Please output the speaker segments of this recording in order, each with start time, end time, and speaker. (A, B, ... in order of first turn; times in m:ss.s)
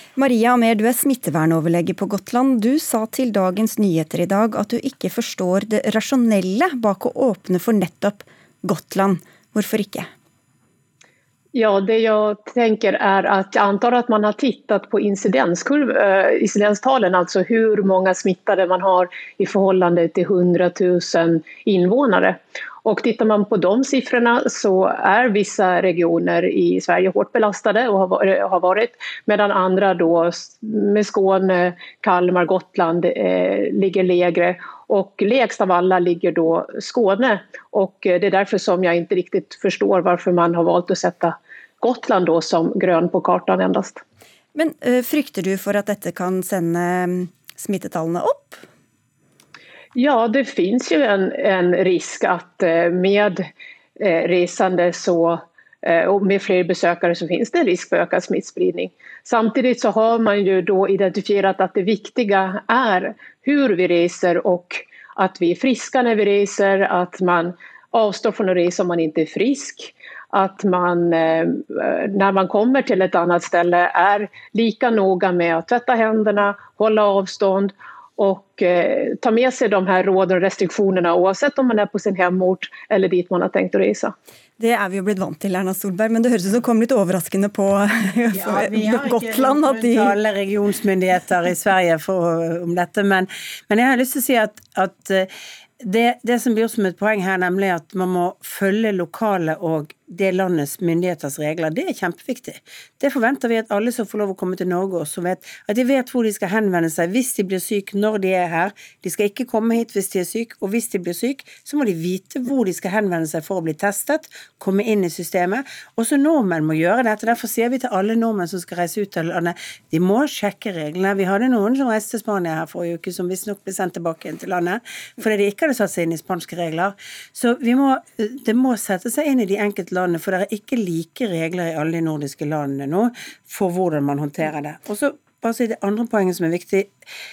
0:00.2-0:10.1 A
0:11.5-0:44.0 B
0:44.6-0:48.6 A
0:50.0-0:53.5 B
0:54.0-1:24.1 B
1:24.6-1:30.2 A
1:28.3-1:35.3 C
1:35.8-2:16.9 C